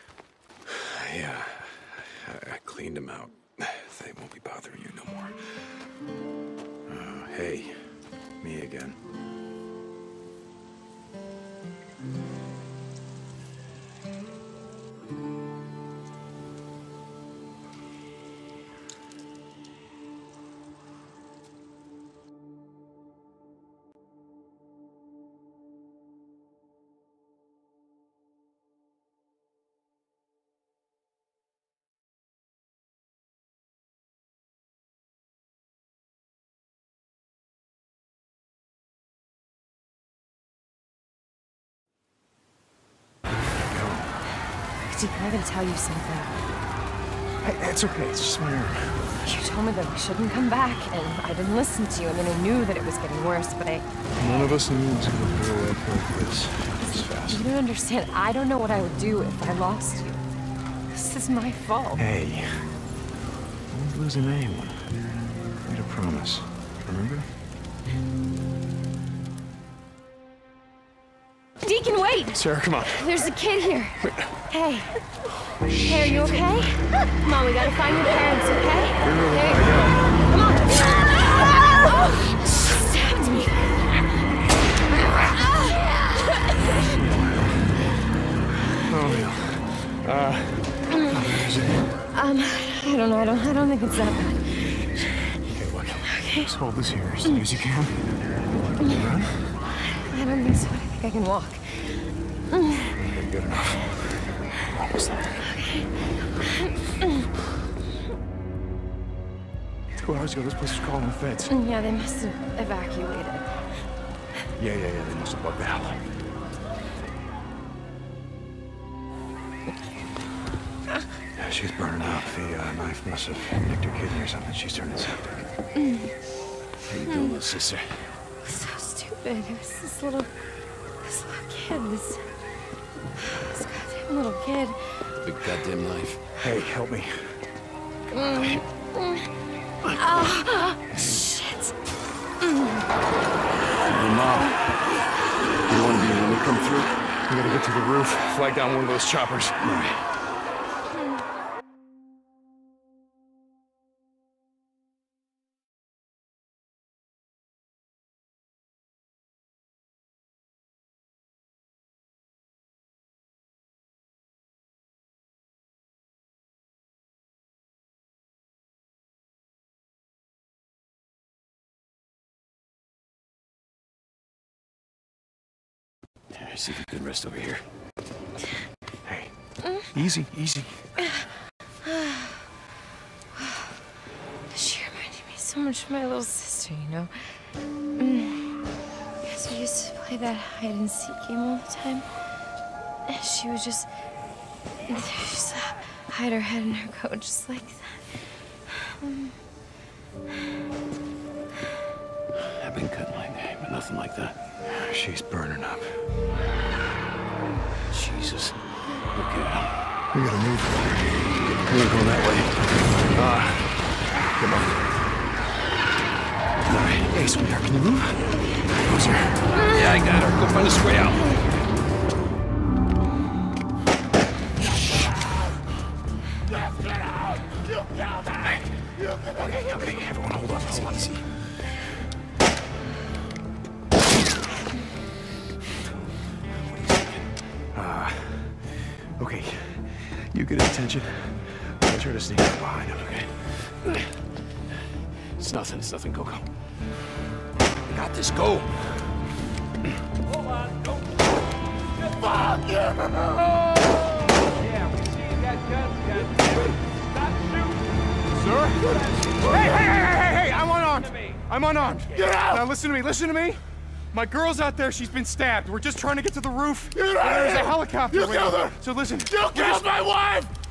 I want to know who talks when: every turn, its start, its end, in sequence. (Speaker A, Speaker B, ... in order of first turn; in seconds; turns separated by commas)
Speaker A: 0.7-5.9, Speaker A: 6.9-9.0, Speaker A: 43.5-44.2, Speaker B: 44.9-46.4, Speaker A: 47.4-49.1, Speaker B: 49.2-53.9, Speaker A: 54.1-57.4, Speaker B: 56.8-60.2, Speaker B: 60.9-62.0, Speaker A: 62.0-62.8, Speaker A: 63.7-64.9, Speaker A: 65.6-67.3, Speaker B: 71.6-75.0, Speaker A: 72.3-73.1, Speaker A: 74.0-74.3, Speaker A: 75.5-76.4, Speaker B: 75.8-83.8, Speaker A: 79.0-80.1, Speaker B: 85.1-86.7, Speaker A: 86.8-87.8, Speaker A: 88.8-92.0, Speaker B: 90.9-91.2, Speaker B: 92.1-95.4, Speaker A: 95.5-98.2, Speaker B: 96.1-96.5, Speaker B: 97.2-97.5, Speaker B: 98.8-99.0, Speaker A: 98.9-99.5, Speaker B: 99.7-103.0, Speaker A: 103.0-105.5, Speaker B: 105.5-107.2, Speaker A: 110.0-111.5, Speaker B: 111.5-113.6, Speaker A: 114.6-116.1, Speaker A: 121.3-125.5, Speaker B: 125.8-126.1, Speaker C: 126.9-128.2, Speaker B: 127.1-127.4, Speaker B: 128.4-130.4, Speaker B: 131.0-132.3, Speaker B: 133.2-135.1, Speaker C: 135.2-136.2, Speaker A: 136.4-137.4, Speaker B: 138.1-139.3, Speaker B: 139.8-141.7, Speaker B: 142.4-142.9, Speaker C: 143.8-144.6, Speaker C: 145.7-146.9, Speaker A: 147.2-149.7, Speaker C: 149.6-150.0, Speaker C: 176.3-177.6, Speaker A: 179.0-179.3, Speaker B: 179.6-179.9, Speaker A: 179.8-180.9, Speaker B: 181.8-182.5, Speaker B: 183.3-183.8, Speaker B: 184.5-188.7, Speaker B: 189.2-192.2, Speaker B: 193.1-193.9, Speaker B: 194.9-199.4, Speaker C: 202.4-204.4, Speaker A: 204.6-206.0, Speaker C: 207.9-209.8, Speaker A: 210.1-214.9, Speaker A: 216.7-219.5, Speaker C: 219.7-221.2, Speaker A: 229.2-231.4, Speaker C: 236.7-237.2, Speaker A: 237.7-243.7, Speaker A: 245.4-246.4, Speaker C: 245.4-246.2, Speaker C: 247.9-248.7, Speaker A: 255.5-256.2, Speaker A: 258.3-270.5